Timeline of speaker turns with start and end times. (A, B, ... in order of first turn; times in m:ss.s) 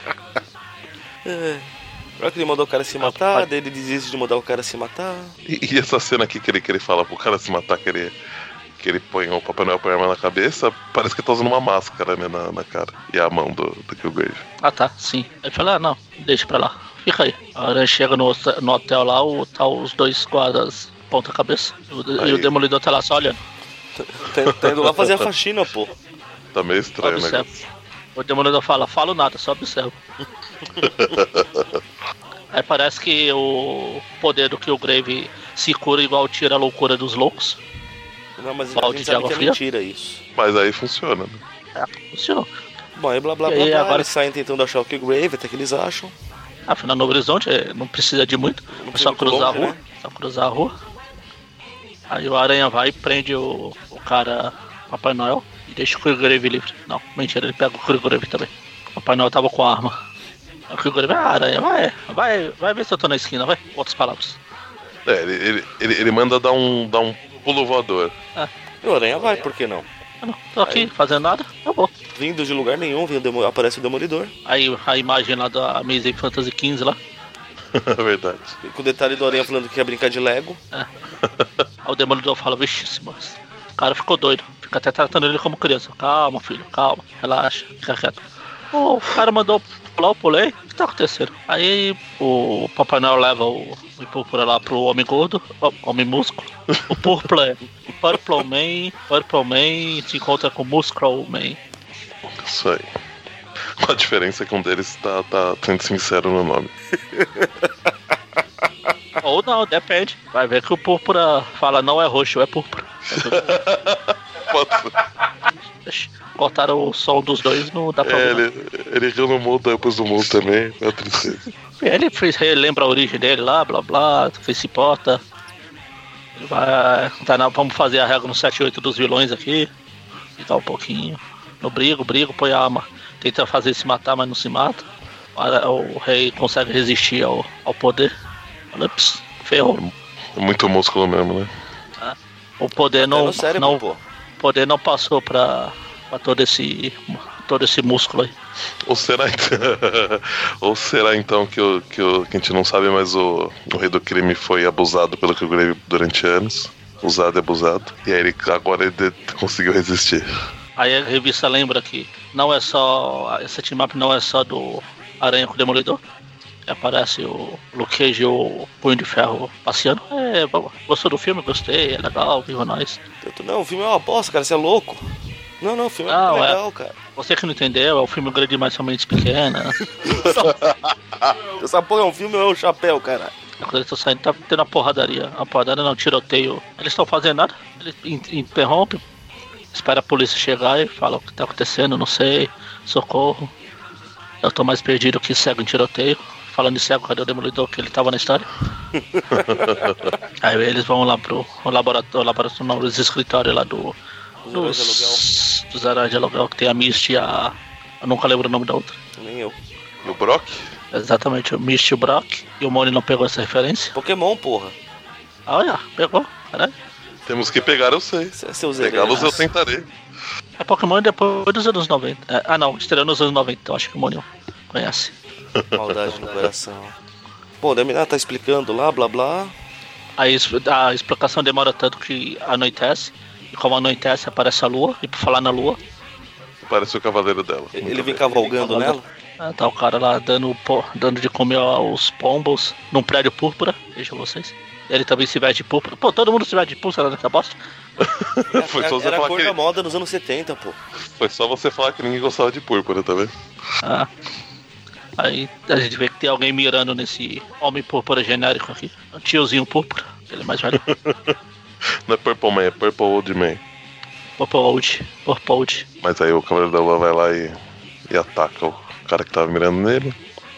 0:01.2-0:01.7 A
0:02.2-0:05.3 A
0:03.0-0:03.4 B
0:05.5-0:08.1 C
0:08.8-0:14.4 C
0:14.6-0:23.4 B
0:22.2-0:22.5 C
0:24.0-0:25.9 A
0:24.4-0:25.2 C
0:26.5-0:27.6 C
0:27.0-0:27.6 B
0:28.2-0:30.0 B
0:30.8-0:31.8 C
0:32.5-0:37.6 B
0:38.4-0:40.2 A
0:38.7-0:39.6 B
0:40.4-0:41.4 C
0:41.8-0:42.5 B
0:43.0-0:46.1 A
0:43.4-0:44.1 B
0:46.7-0:50.7 B
0:48.7-0:49.8 A
0:52.1-1:00.0 B
1:00.7-1:04.4 B
1:05.0-1:08.1 C
1:08.8-1:09.8 A
1:10.2-1:11.9 B
1:12.1-1:14.3 A
1:14.5-1:17.0 B
1:17.7-1:18.5 C
1:18.6-1:20.6 A
1:21.2-1:21.5 C
1:21.8-1:28.2 B
1:28.7-1:41.6 B
1:36.7-1:37.1 C
1:42.3-1:42.9 C
1:43.6-1:46.7 C
1:47.1-1:47.7 A
1:49.2-1:53.5 B
1:53.1-1:54.9 C
1:55.8-1:58.4 B
1:58.0-2:01.4 C
2:01.8-2:05.2 B
2:06.4-2:09.7 B
2:10.4-2:14.8 B
2:15.4-2:18.1 B
2:18.7-2:19.8 B
2:19.8-2:21.5 C
2:22.0-2:23.8 B
2:23.0-2:24.0 A
2:24.4-2:28.3 B
2:28.8-2:40.3 C
2:40.8-2:46.0 B
2:46.7-2:53.0 B
2:53.2-2:56.9 A
2:56.1-2:56.6 B
2:57.2-2:59.8 B
2:59.8-3:00.6 A
3:00.4-3:00.9 C
3:01.6-3:03.3 A
3:03.6-3:09.0 B
3:09.7-3:13.5 B
3:14.4-3:18.5 B
3:18.9-3:19.4 A
3:19.3-3:20.1 C
3:20.4-3:23.9 B
3:24.4-3:25.2 A
3:24.5-3:29.0 B
3:29.2-3:29.6 A
3:30.0-3:30.7 C
3:30.9-3:33.9 B
3:33.9-3:34.7 A
3:35.5-3:36.7 B
3:37.3-3:39.9 C
3:38.4-3:39.4 A
3:39.1-3:39.4 B
3:40.6-3:45.1 B
3:45.6-3:46.0 C
3:45.7-3:46.9 A
3:47.6-3:49.5 A
3:50.2-3:55.8 B
3:56.6-3:59.0 C
3:57.8-3:59.0 A
3:59.4-4:07.5 B
4:08.0-4:09.6 C
4:08.5-4:10.8 A
4:11.0-4:13.3 C
4:13.8-4:14.1 B
4:15.2-4:20.8 B
4:20.7-4:21.4 C
4:22.0-4:23.6 C
4:24.4-4:25.8 B
4:26.0-4:27.6 C
4:28.1-4:30.2 C